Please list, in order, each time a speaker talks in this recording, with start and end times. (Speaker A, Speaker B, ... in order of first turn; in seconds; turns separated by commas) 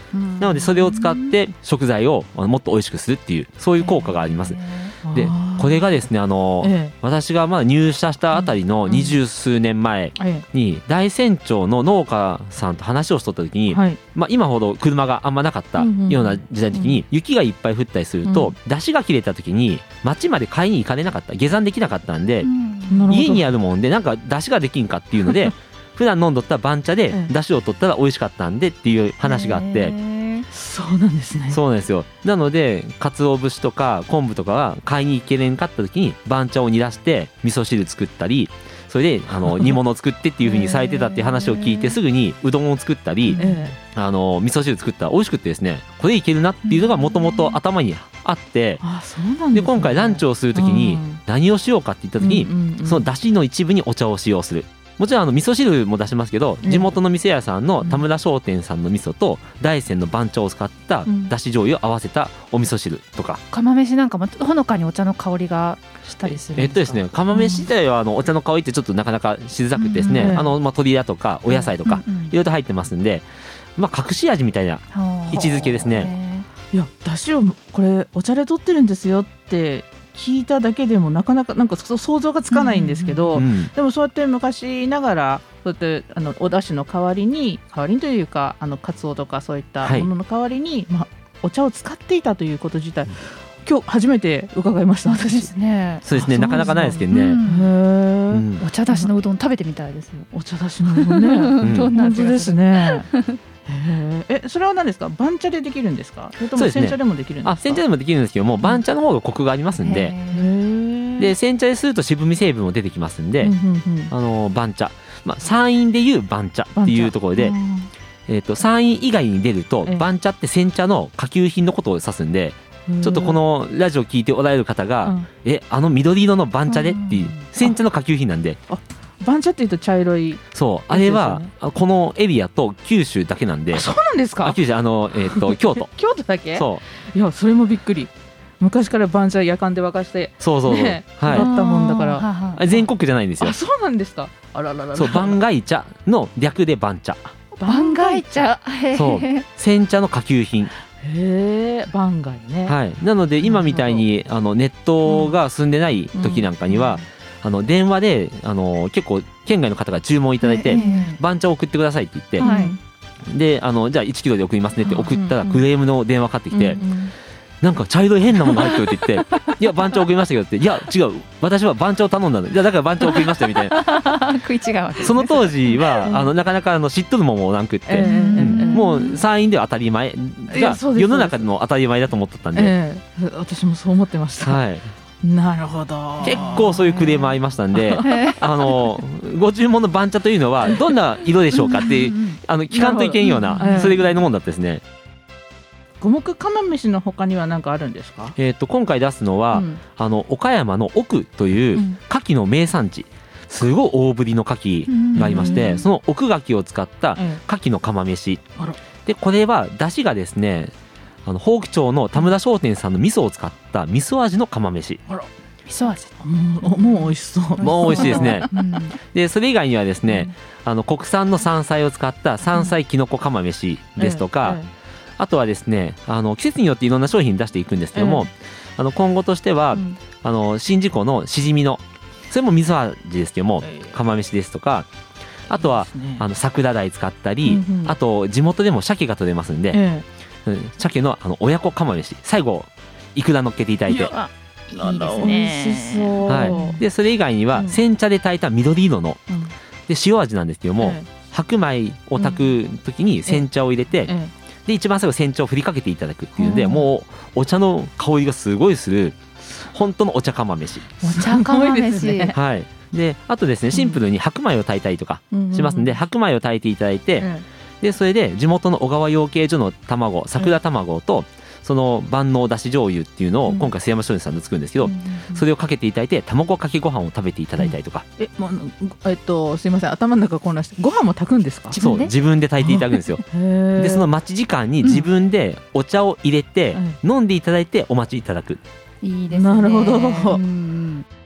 Speaker A: 0.1-0.5, Speaker B: 0.4-4.6, Speaker C: 0.6-1.3, Speaker C: 3.8-5.0, Speaker A: 5.0-5.8, Speaker B: 5.1-22.5, Speaker A: 6.6-6.9, Speaker A: 10.2-10.4, Speaker A: 13.7-14.0, Speaker A: 15.8-17.0, Speaker A: 18.2-18.5, Speaker C: 22.4-23.1, Speaker A: 22.9-23.5, Speaker B: 23.1-30.0, Speaker C: 29.2-30.5, Speaker A: 30.5-31.6, Speaker B: 31.5-48.8, Speaker C: 40.4-42.0, Speaker C: 43.3-43.6, Speaker A: 43.4-43.8, Speaker C: 46.7-47.6, Speaker A: 48.8-51.2, Speaker B: 49.5-63.4, Speaker A: 52.2-53.1, Speaker A: 56.6-56.9, Speaker A: 61.0-61.3, Speaker C: 63.5-67.7, Speaker B: 66.5-76.1, Speaker C: 69.8-70.5, Speaker A: 70.1-70.5, Speaker C: 71.5-72.3, Speaker C: 74.9-76.5, Speaker A: 75.3-75.8, Speaker A: 76.7-95.5, Speaker C: 82.5-83.4, Speaker B: 83.3-83.7, Speaker B: 89.8-90.1, Speaker C: 95.0-97.7, Speaker B: 96.0-97.4, Speaker A: 96.1-99.1, Speaker B: 98.3-98.6, Speaker C: 98.6-100.3, Speaker A: 100.3-103.1, Speaker C: 100.9-103.4, Speaker B: 101.6-101.9, Speaker A: 103.7-107.8, Speaker B: 106.5-110.2, Speaker C: 109.8-110.5, Speaker A: 110.3-111.3, Speaker B: 111.2-113.5, Speaker A: 113.4-114.1, Speaker B: 114.1-117.6, Speaker A: 116.8-117.9, Speaker B: 118.3-128.6, Speaker A: 122.9-123.4, Speaker C: 126.7-127.3, Speaker A: 128.7-131.5, Speaker B: 130.5-133.9, Speaker A: 133.7-134.6, Speaker B: 134.4-135.9, Speaker A: 135.2-142.8, Speaker B: 136.6-136.8, Speaker B: 140.4-141.5, Speaker C: 141.3-142.7, Speaker B: 142.6-143.6, Speaker A: 143.4-145.4, Speaker B: 144.9-147.2, Speaker A: 147.6-148.5, Speaker C: 147.7-149.5, Speaker B: 148.9-150.7, Speaker A: 151.0-152.8, Speaker B: 152.7-162.5, Speaker A: 153.4-154.1, Speaker A: 155.1-155.3, Speaker A: 156.1-157.0, Speaker C: 160.4-161.2, Speaker A: 160.7-161.2, Speaker A: 162.4-162.8, Speaker C: 162.4-162.8, Speaker B: 163.3-166.8, Speaker A: 165.1-165.6, Speaker A: 166.5-167.1, Speaker B: 167.6-173.9, Speaker C: 173.1-176.1, Speaker B: 175.0-182.7, Speaker A: 177.9-178.9, Speaker C: 178.0-179.2, Speaker A: 180.5-181.5, Speaker A: 182.6-184.6, Speaker B: 184.4-184.9, Speaker A: 185.2-188.4, Speaker B: 186.2-194.8, Speaker C: 188.0-188.6, Speaker C: 191.5-192.4, Speaker A: 192.7-194.0, Speaker C: 193.2-194.0, Speaker A: 196.0-198.4, Speaker B: 198.4-208.4, Speaker A: 199.5-199.8, Speaker C: 204.9-205.8, Speaker A: 205.1-205.8, Speaker A: 207.2-207.4, Speaker B: 209.1-210.7, Speaker B: 211.2-215.0, Speaker C: 215.7-219.0, Speaker A: 216.2-218.8, Speaker B: 217.6-224.6, Speaker A: 224.0-224.7, Speaker B: 225.2-234.9, Speaker A: 227.9-228.3, Speaker A: 229.7-230.0, Speaker A: 233.6-234.0, Speaker B: 235.5-239.8, Speaker A: 235.5-236.3, Speaker A: 237.4-237.9, Speaker A: 239.7-240.1, Speaker B: 240.4-244.2, Speaker A: 243.9-246.8, Speaker C: 244.7-246.8, Speaker B: 246.3-249.2, Speaker A: 247.5-247.8, Speaker B: 249.9-254.1, Speaker A: 250.8-251.1, Speaker A: 254.0-254.3, Speaker B: 254.7-260.9, Speaker A: 256.4-256.9, Speaker A: 261.0-262.4, Speaker C: 261.0-262.3, Speaker B: 262.3-267.3, Speaker A: 265.3-266.0, Speaker A: 267.2-267.4, Speaker B: 267.8-278.1, Speaker A: 274.8-275.4, Speaker A: 277.6-281.8, Speaker C: 281.7-282.1, Speaker B: 281.8-283.2, Speaker A: 282.6-284.1, Speaker B: 283.8-288.6, Speaker C: 284.8-285.1, Speaker C: 289.0-291.1, Speaker A: 289.3-290.4